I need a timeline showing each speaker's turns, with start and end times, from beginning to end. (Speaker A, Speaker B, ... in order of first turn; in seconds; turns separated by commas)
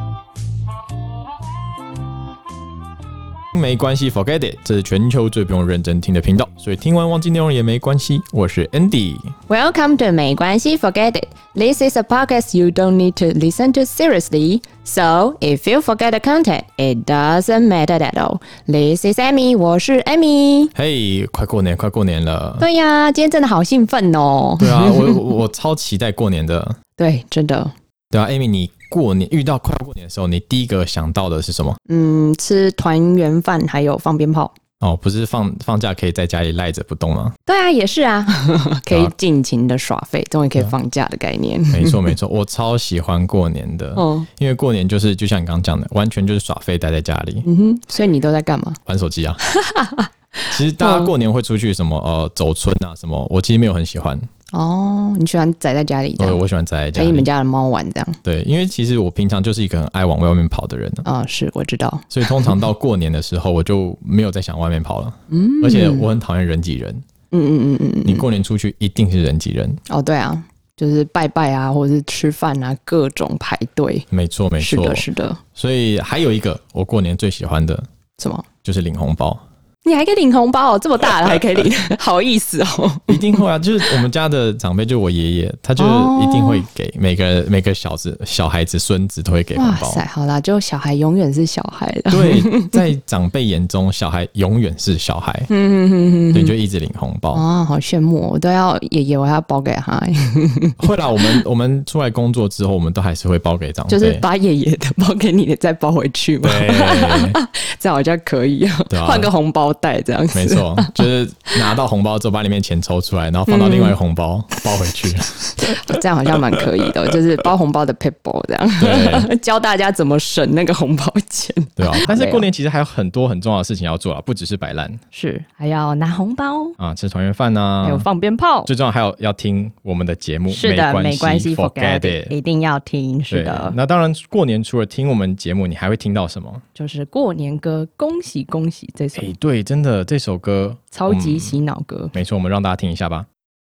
Speaker A: 3.5-9.3, Speaker B: 9.5-20.7, Speaker A: 20.8-22.7, Speaker B: 22.6-25.2, Speaker A: 24.6-26.8, Speaker B: 27.0-27.7, Speaker A: 28.1-31.8, Speaker B: 31.9-34.5, Speaker A: 34.8-37.4, Speaker B: 37.5-42.1, Speaker A: 41.7-47.5, Speaker B: 44.0-44.3, Speaker B: 47.4-48.8, Speaker A: 48.9-49.4, Speaker B: 49.5-50.1, Speaker A: 50.5-54.3, Speaker B: 50.8-51.1, Speaker B: 54.5-56.4, Speaker A: 56.2-57.3, Speaker B: 56.9-58.2, Speaker A: 58.2-61.1, Speaker B: 61.0-62.5, Speaker A: 62.1-67.0, Speaker B: 65.3-66.1, Speaker B: 67.3-68.3, Speaker A: 68.0-69.8, Speaker B: 69.9-74.1, Speaker A: 74.1-77.9, Speaker B: 74.6-75.4, Speaker B: 78.2-78.5, Speaker A: 78.6-79.4, Speaker B: 79.8-83.9, Speaker A: 83.1-90.0, Speaker B: 85.8-86.7, Speaker B: 89.5-92.8, Speaker A: 92.1-95.5, Speaker B: 95.5-96.5, Speaker A: 96.3-97.4, Speaker B: 97.3-101.4, Speaker A: 100.8-104.2, Speaker B: 103.9-111.0, Speaker A: 106.4-107.4, Speaker A: 108.9-109.3, Speaker A: 110.3-115.5, Speaker B: 113.5-114.0, Speaker B: 115.6-122.5, Speaker A: 118.8-119.3, Speaker A: 121.8-125.0, Speaker B: 125.1-126.8, Speaker A: 126.8-128.1, Speaker B: 127.8-128.7, Speaker A: 128.7-132.3, Speaker B: 130.5-133.8, Speaker A: 133.3-136.6, Speaker B: 136.8-139.3, Speaker A: 139.2-141.6, Speaker B: 140.9-142.1, Speaker A: 142.1-143.3